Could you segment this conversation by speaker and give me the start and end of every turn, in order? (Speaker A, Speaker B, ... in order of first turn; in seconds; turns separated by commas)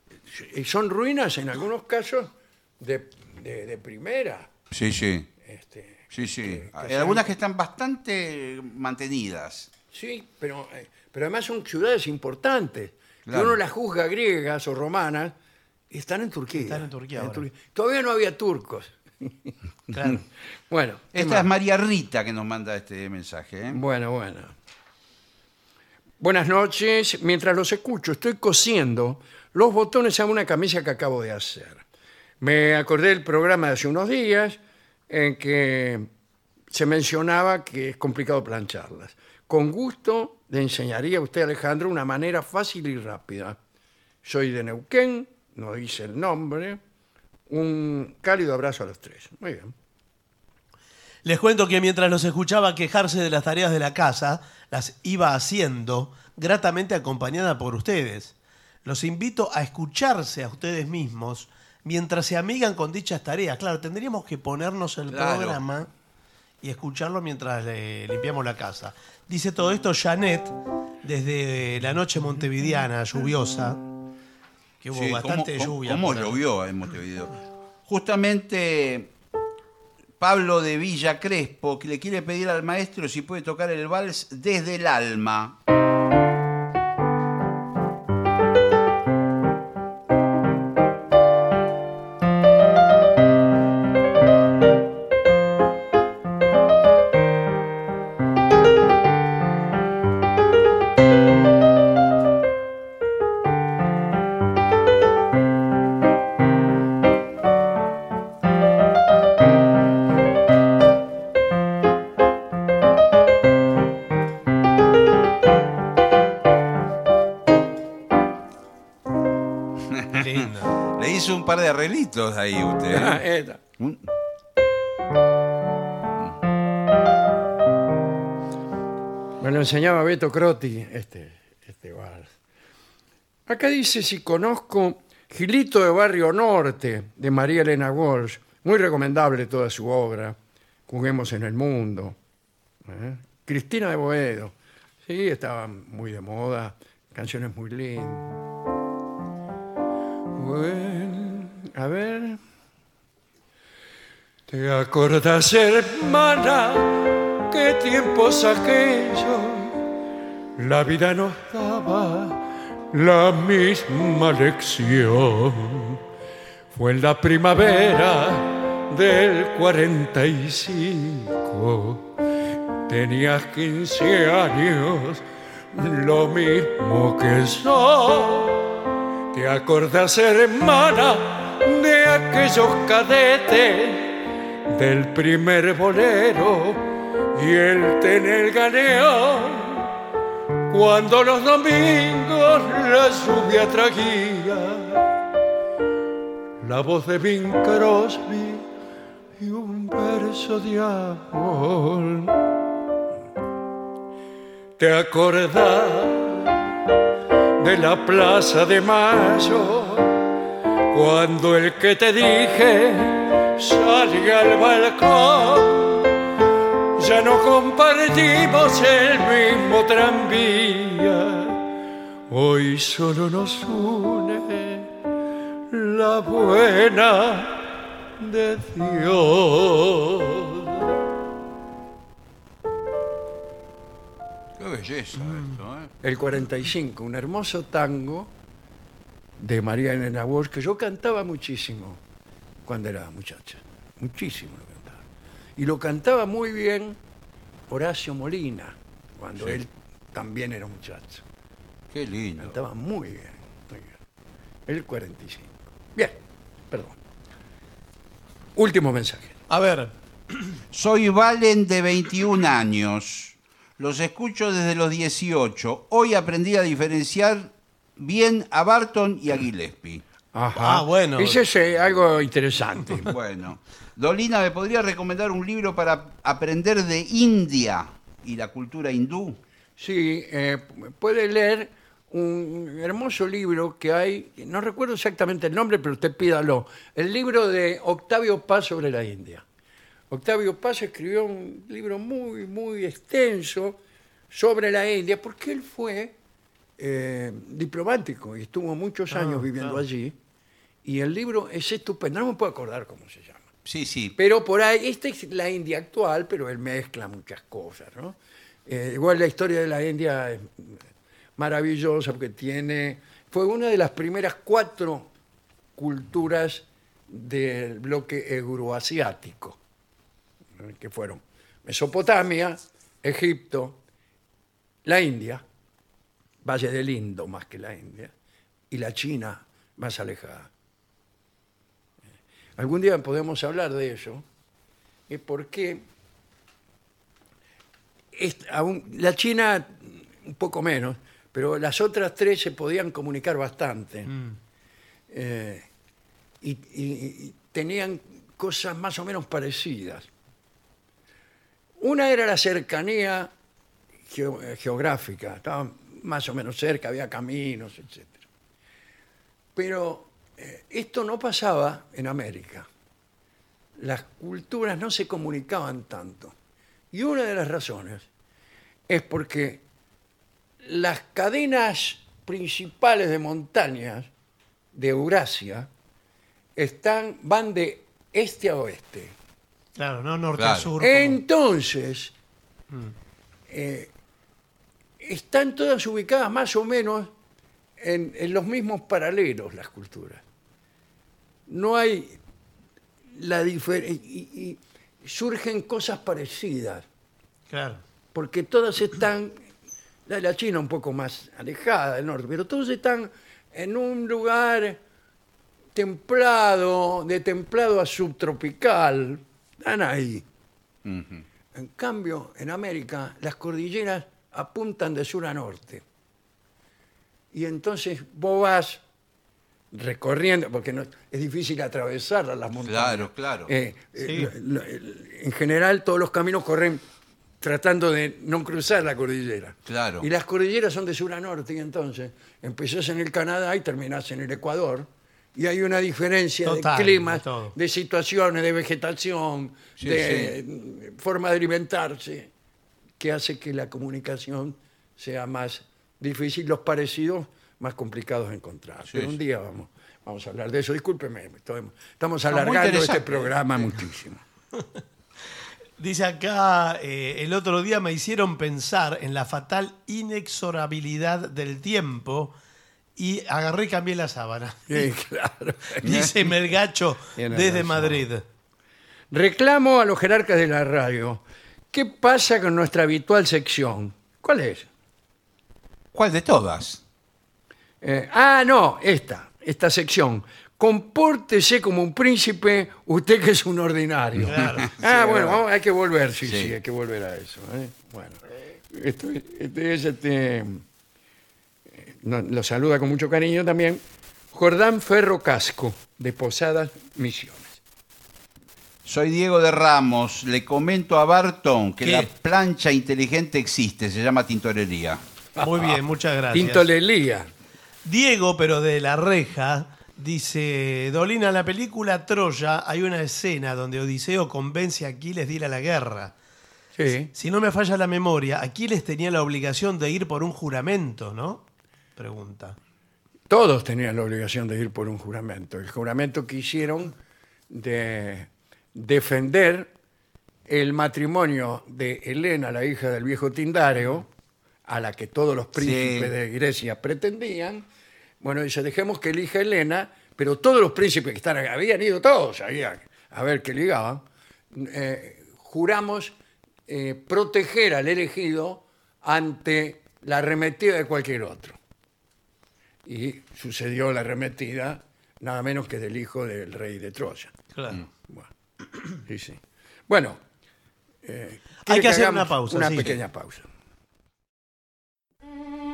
Speaker A: 0.3-4.5, Speaker B: 4.7-5.3, Speaker A: 5.4-7.3, Speaker B: 6.1-9.7, Speaker A: 9.9-15.3, Speaker B: 13.3-13.6, Speaker A: 15.9-19.5, Speaker C: 16.6-17.5, Speaker C: 19.9-20.2, Speaker A: 20.7-21.5, Speaker B: 21.1-23.8, Speaker A: 23.7-24.5, Speaker A: 26.2-31.8, Speaker A: 32.4-36.1, Speaker A: 36.7-43.6, Speaker A: 44.2-46.8, Speaker A: 47.5-49.7, Speaker C: 51.2-58.3, Speaker C: 58.9-65.9, Speaker B: 65.1-65.6, Speaker C: 66.6-73.8, Speaker C: 74.8-76.4, Speaker B: 74.9-79.1, Speaker B: 80.2-85.6, Speaker B: 119.8-123.2, Speaker C: 120.1-120.8, Speaker A: 122.9-123.6, Speaker B: 123.8-124.1, Speaker A: 129.4-132.3, Speaker A: 133.5-140.4, Speaker A: 140.9-142.2, Speaker A: 142.9-144.5, Speaker A: 145.1-148.4, Speaker A: 150.3-152.4, Speaker A: 154.5-159.8, Speaker A: 160.6-166.0, Speaker A: 166.7-172.1, Speaker A: 172.9-178.7, Speaker A: 179.3-189.9, Speaker A: 190.7-195.1, Speaker A: 196.6-198.7, Speaker A: 199.4-202.4, Speaker A: 204.8-206.7, Speaker A: 207.6-210.2, Speaker A: 210.9-216.2, Speaker A: 217.0-221.6, Speaker A: 222.3-224.9, Speaker A: 225.7-227.6, Speaker A: 228.2-230.8, Speaker B: 234.6-235.9, Speaker A: 236.0-238.3, Speaker A: 239.4-242.0, Speaker A: 242.7-245.0, Speaker A: 245.6-247.0, Speaker A: 247.7-251.2, Speaker B: 251.9-252.6, Speaker A: 252.4-253.9, Speaker A: 254.7-256.2, Speaker A: 256.7-257.0, Speaker A: 258.6-259.4, Speaker C: 259.5-259.9, Speaker B: 260.7-270.0, Speaker A: 270.3-273.1, Speaker C: 270.5-271.4, Speaker B: 273.1-279.4, Speaker A: 279.8-289.4, Speaker A: 290.1-293.8, Speaker A: 294.3-296.1, Speaker A: 296.8-300.1, Speaker C: 299.1-299.8, Speaker A: 300.8-303.5, Speaker B: 303.7-304.1, Speaker A: 304.2-310.8, Speaker A: 311.4-315.1, Speaker A: 315.8-319.6, Speaker A: 320.6-323.8, Speaker A: 324.9-325.4, Speaker A: 326.4-328.1, Speaker A: 328.7-330.5, Speaker A: 332.6-334.2, Speaker A: 335.1-335.9, Speaker A: 338.1-344.1, Speaker C: 344.1-344.4, Speaker A: 345.1-345.7, Speaker A: 346.4-350.1, Speaker A: 351.8-353.3, Speaker A: 354.1-358.2, Speaker A: 359.6-362.7, Speaker A: 363.8-366.3, Speaker A: 366.9-368.1, Speaker A: 368.9-369.6, Speaker A: 370.6-374.1, Speaker A: 374.7-375.7, Speaker A: 376.6-379.1, Speaker C: 379.8-381.2, Speaker B: 380.4-380.7, Speaker A: 380.8-382.1, Speaker A: 383.5-383.9, Speaker A: 385.0-387.1, Speaker A: 387.8-390.2, Speaker A: 391.5-392.2, Speaker A: 393.1-396.9, Speaker C: 397.5-397.8, Speaker A: 398.1-399.4, Speaker A: 400.1-404.8, Speaker A: 405.8-410.2, Speaker B: 410.9-411.2, Speaker A: 411.5-415.8, Speaker A: 417.3-418.8, Speaker A: 419.7-426.8, Speaker B: 422.6-423.5, Speaker C: 424.0-424.3, Speaker A: 427.4-442.3, Speaker B: 429.7-430.1, Speaker C: 436.4-437.6, Speaker B: 439.8-440.4, Speaker A: 443.0-454.2, Speaker B: 448.9-449.2, Speaker B: 452.3-453.4, Speaker C: 455.8-462.3, Speaker C: 463.0-464.9, Speaker A: 464.7-466.0, Speaker C: 465.8-468.2, Speaker B: 465.8-466.1, Speaker A: 467.2-468.1, Speaker A: 469.1-474.7, Speaker B: 475.9-476.8, Speaker A: 477.8-490.6, Speaker B: 484.2-485.4, Speaker C: 484.2-484.8, Speaker B: 486.2-486.5, Speaker A: 491.8-497.6, Speaker B: 498.9-505.0, Speaker C: 501.8-502.1, Speaker A: 505.4-505.8, Speaker C: 505.4-506.7, Speaker A: 506.3-507.3, Speaker C: 507.8-516.1, Speaker A: 516.8-517.1, Speaker C: 517.1-521.5, Speaker C: 522.0-522.6, Speaker A: 523.3-527.0, Speaker A: 527.5-529.7, Speaker A: 530.5-534.1, Speaker A: 534.7-537.7, Speaker B: 535.5-536.1, Speaker A: 538.2-546.1, Speaker A: 546.7-551.6, Speaker A: 552.9-557.4, Speaker C: 557.5-557.9, Speaker A: 558.1-560.2, Speaker A: 561.0-563.5, Speaker C: 561.6-563.0